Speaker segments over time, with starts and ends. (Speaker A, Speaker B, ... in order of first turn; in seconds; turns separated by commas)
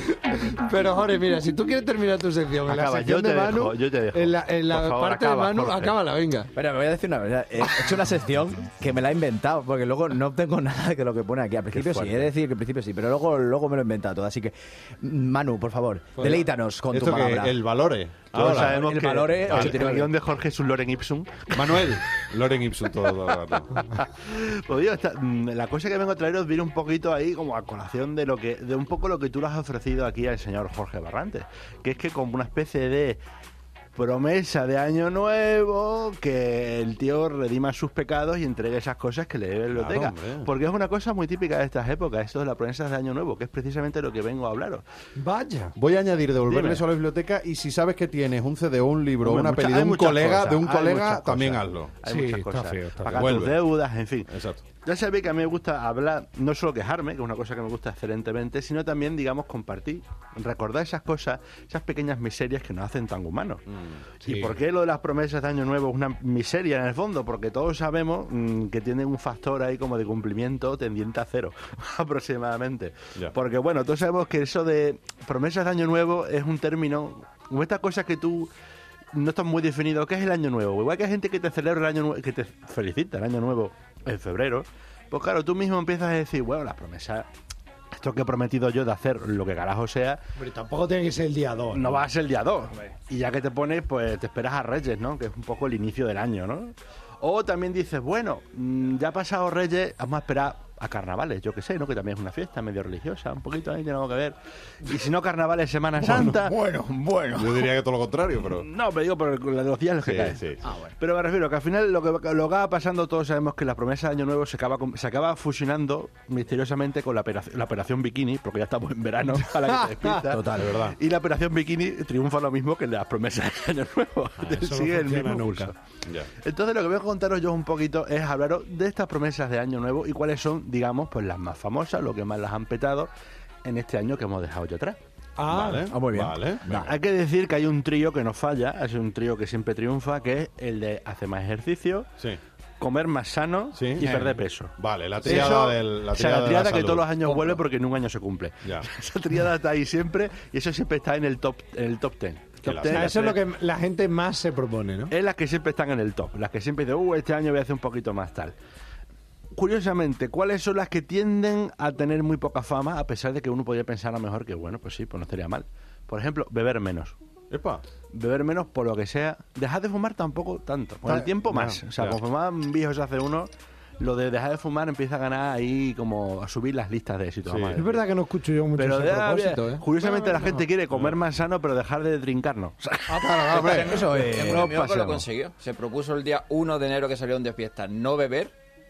Speaker A: 0.1-6.5, Speaker B: 2.6-6.0, Speaker C: 6.5-17.6, Speaker B: 11.7-12.3, Speaker A: 16.2-16.4, Speaker D: 16.9-18.8, Speaker C: 18.3-20.1, Speaker B: 18.3-21.9, Speaker D: 19.5-19.9, Speaker D: 21.5-23.9, Speaker B: 23.8-33.2, Speaker B: 33.9-44.8, Speaker D: 39.7-40.5, Speaker A: 45.1-45.7, Speaker D: 45.8-52.0, Speaker A: 46.5-46.8, Speaker B: 49.2-63.6, Speaker A: 52.0-53.3, Speaker D: 53.1-53.6, Speaker D: 54.3-54.6, Speaker D: 63.7-64.1, Speaker B: 64.2-78.5, Speaker A: 64.3-64.6, Speaker B: 79.1-87.3, Speaker B: 87.9-90.2, Speaker A: 90.4-92.0, Speaker B: 91.7-107.7, Speaker D: 106.0-106.7, Speaker D: 107.3-108.7, Speaker B: 108.4-125.8, Speaker D: 110.0-110.6, Speaker C: 120.2-120.8, Speaker D: 120.5-121.0, Speaker A: 124.4-125.7, Speaker B: 126.4-133.1, Speaker B: 133.6-135.0, Speaker A: 135.4-135.9, Speaker D: 135.5-136.9, Speaker C: 135.9-136.9, Speaker B: 136.7-142.1, Speaker B: 142.8-153.4, Speaker D: 143.8-147.6, Speaker A: 145.2-145.6, Speaker D: 152.6-153.2, Speaker A: 152.9-155.1, Speaker B: 155.1-158.5, Speaker B: 159.5-167.2, Speaker D: 167.5-167.8, Speaker B: 168.1-173.5, Speaker D: 171.0-172.2, Speaker B: 174.0-178.1, Speaker D: 177.5-177.8, Speaker A: 177.8-180.6, Speaker B: 178.8-183.6, Speaker D: 180.9-181.2, Speaker D: 183.1-184.1, Speaker E: 183.2-188.5, Speaker C: 183.5-185.2